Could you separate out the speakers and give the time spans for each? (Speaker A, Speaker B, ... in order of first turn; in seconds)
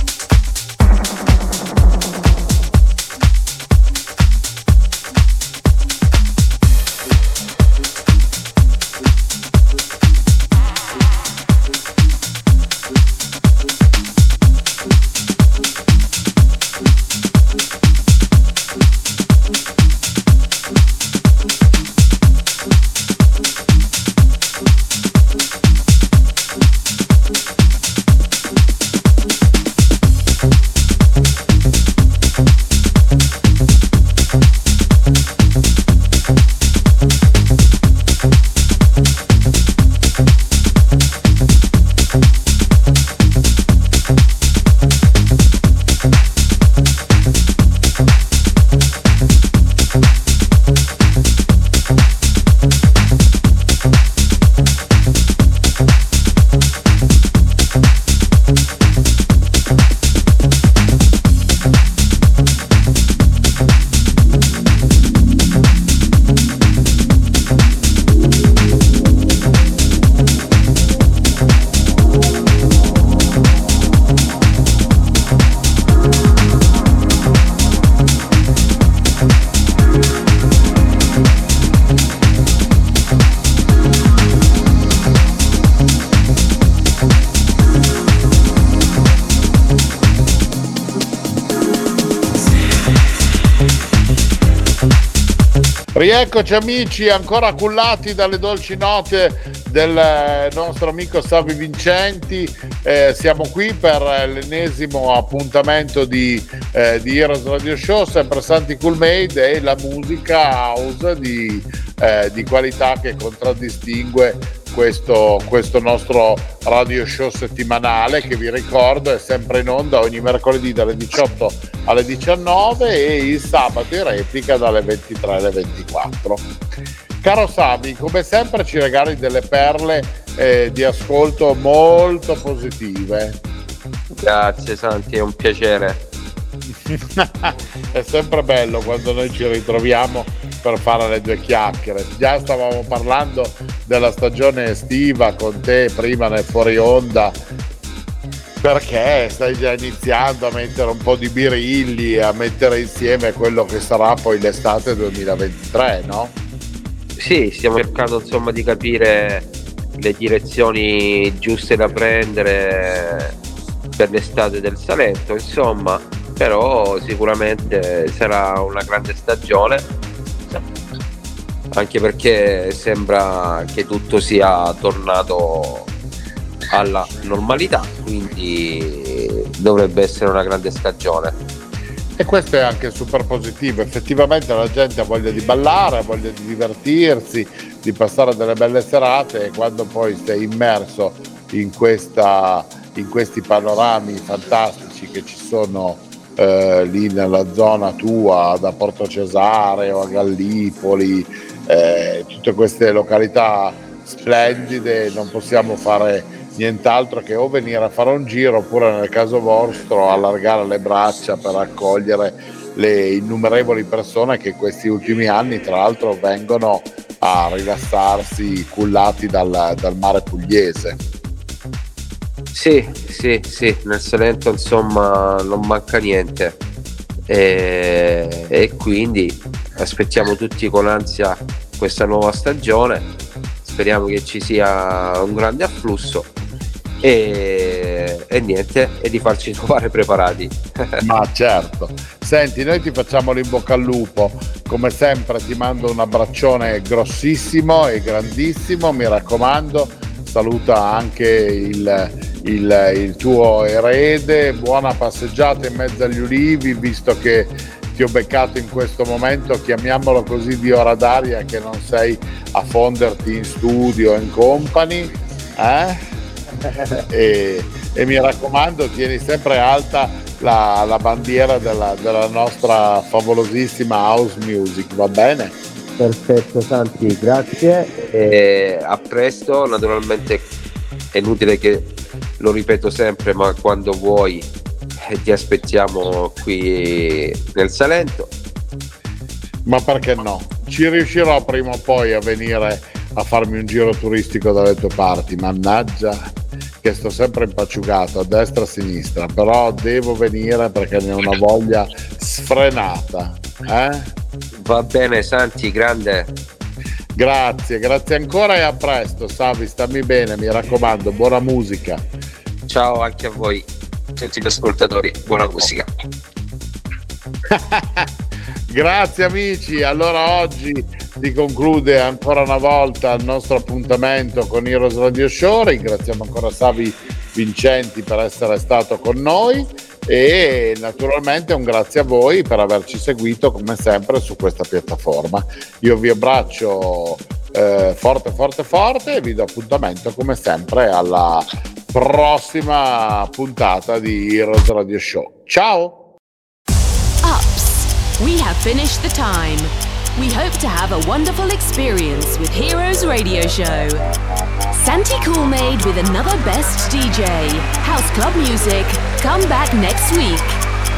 Speaker A: 95.9-126.5, 127.2-133.4, 136.8-147.4, 148.6-156.3, 182.2-221.0, 241.0-266.0, 267.1-275.6, 289.6-304.1, 307.1-312.0, 317.5-318.1, 318.7-346.1
Speaker B: 134.1-136.0, 157.2-163.3, 164.0-169.9, 171.7-175.9, 176.7-181.4, 222.5-226.6, 227.3-233.1, 233.6-236.3, 237.0-241.0, 276.0-280.5, 281.1-284.5, 285.0-288.3, 304.6-306.3, 312.7-315.9
Speaker C: 347.2-354.0, 354.7-360.6